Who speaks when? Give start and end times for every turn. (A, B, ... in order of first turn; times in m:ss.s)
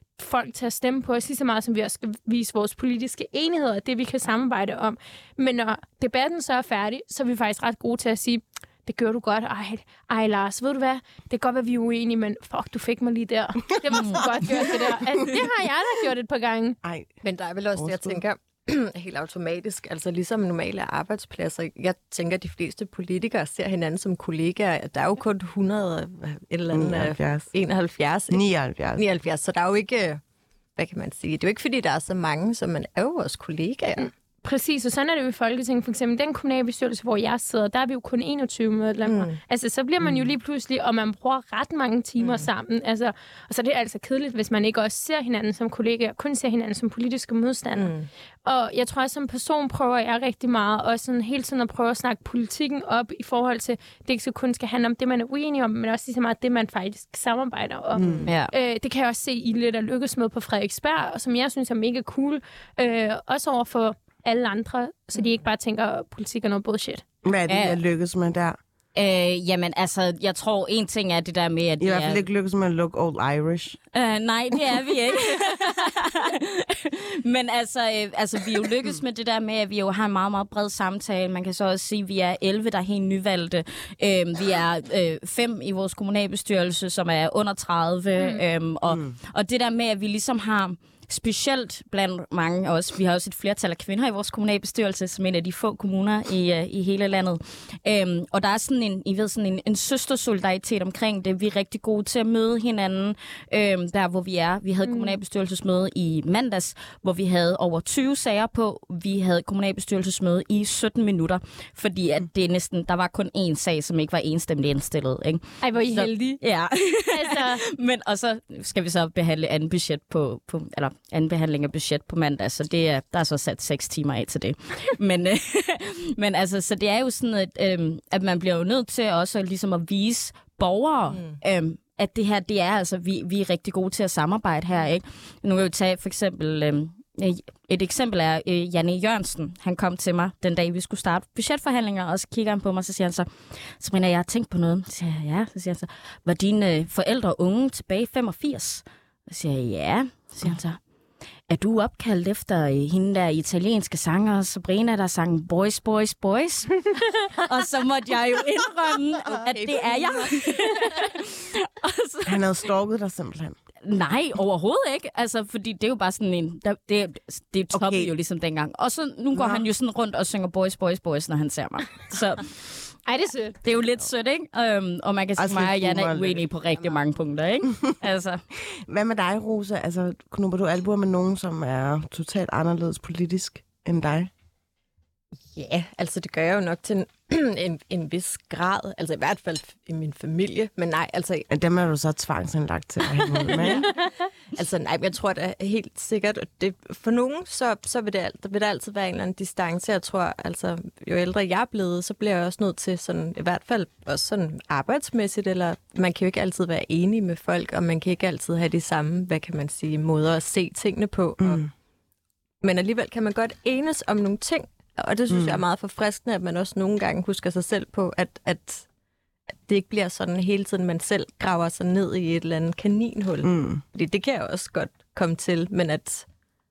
0:00.2-0:16.8 A
0:13.9-0:14.7 B
0:14.0-0:14.2 C
0:16.8-0:17.1 C
0:17.2-0:28.4 D
0:17.7-0:18.2 C
0:26.7-0:27.5 C
0:28.3-0:29.0 C
0:29.0-0:30.2 D
0:30.8-0:34.1 D
0:34.0-0:47.9 A
0:39.1-0:39.4 D
0:42.2-0:42.5 D
0:47.8-0:48.1 D
0:48.4-1:07.0 A
0:58.0-0:58.3 C
0:58.0-0:58.3 D
0:58.3-0:58.5 B
1:07.2-1:08.6 C
1:07.5-1:07.8 B
1:09.0-1:12.2 B
1:11.8-1:13.8 C
1:13.9-2:30.8 B
1:28.9-1:29.1 C
1:44.9-1:45.2 A
1:55.6-1:56.4 A
1:57.1-1:57.6 A
2:11.1-2:11.4 D
2:31.5-2:42.4 B
2:39.9-2:40.9 A
2:42.3-2:43.6 C
2:43.8-2:52.9 B
2:47.7-2:48.1 C
2:49.3-2:49.6 C
2:53.1-2:53.6 A
2:53.6-2:58.4 B
2:55.4-2:56.5 C
2:58.7-3:04.3 C
3:05.5-3:11.5 D
3:11.5-3:13.9 C
3:13.2-3:31.6 D
3:31.4-3:31.7 C
3:32.6-3:38.8 D
3:35.3-3:35.6 C
3:39.6-3:46.3 D
3:43.4-3:43.8 C